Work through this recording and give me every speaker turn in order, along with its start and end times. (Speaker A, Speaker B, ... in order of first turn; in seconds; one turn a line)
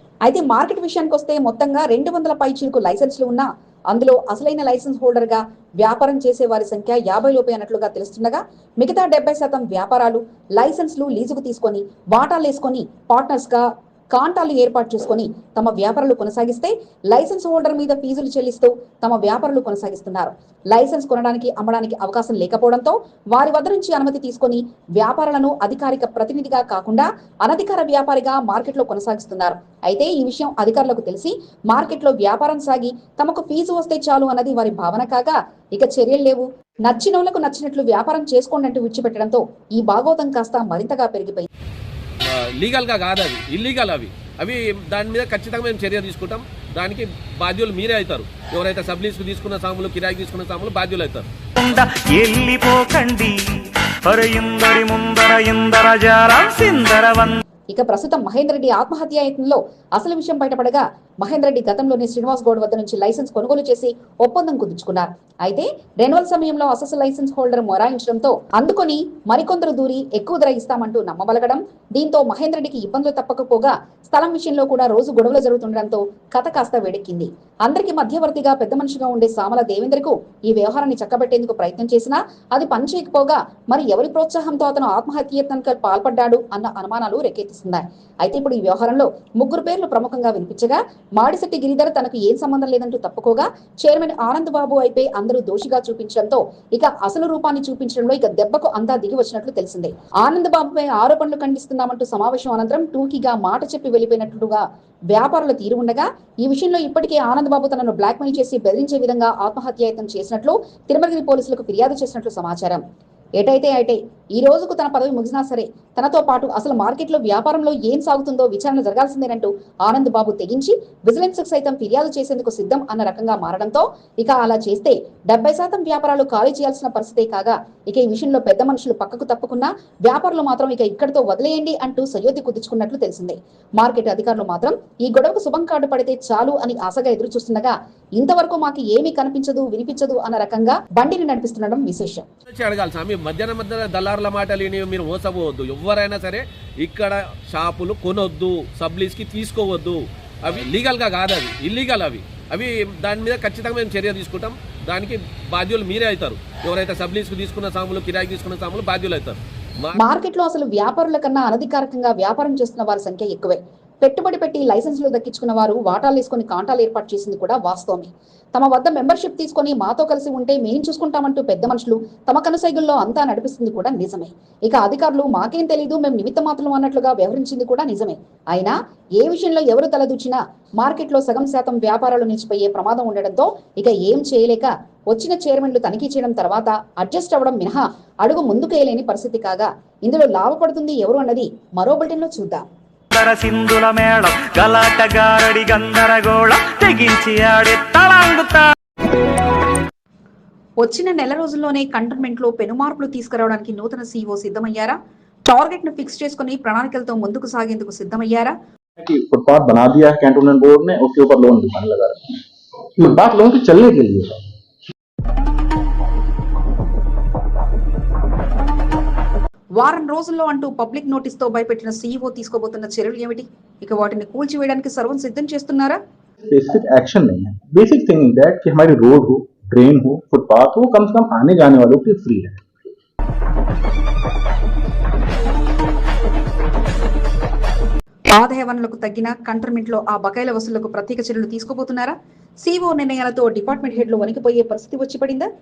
Speaker A: 0.2-41.5
Speaker B: 42.2-51.2
Speaker C: 51.5-53.4
Speaker C: 54.0-57.4
Speaker A: 57.7-112.8
Speaker A: 113.4-142.3
Speaker B: 142.5-159.9
Speaker A: 160.0-192.7
Speaker C: 193.1-198.7
Speaker A: 200.8-208.5
Speaker D: 209.0-212.4
Speaker D: 212.9-214.5
Speaker A: 219.8-226.0
Speaker D: 226.4-232.6
Speaker A: 238.3-245.5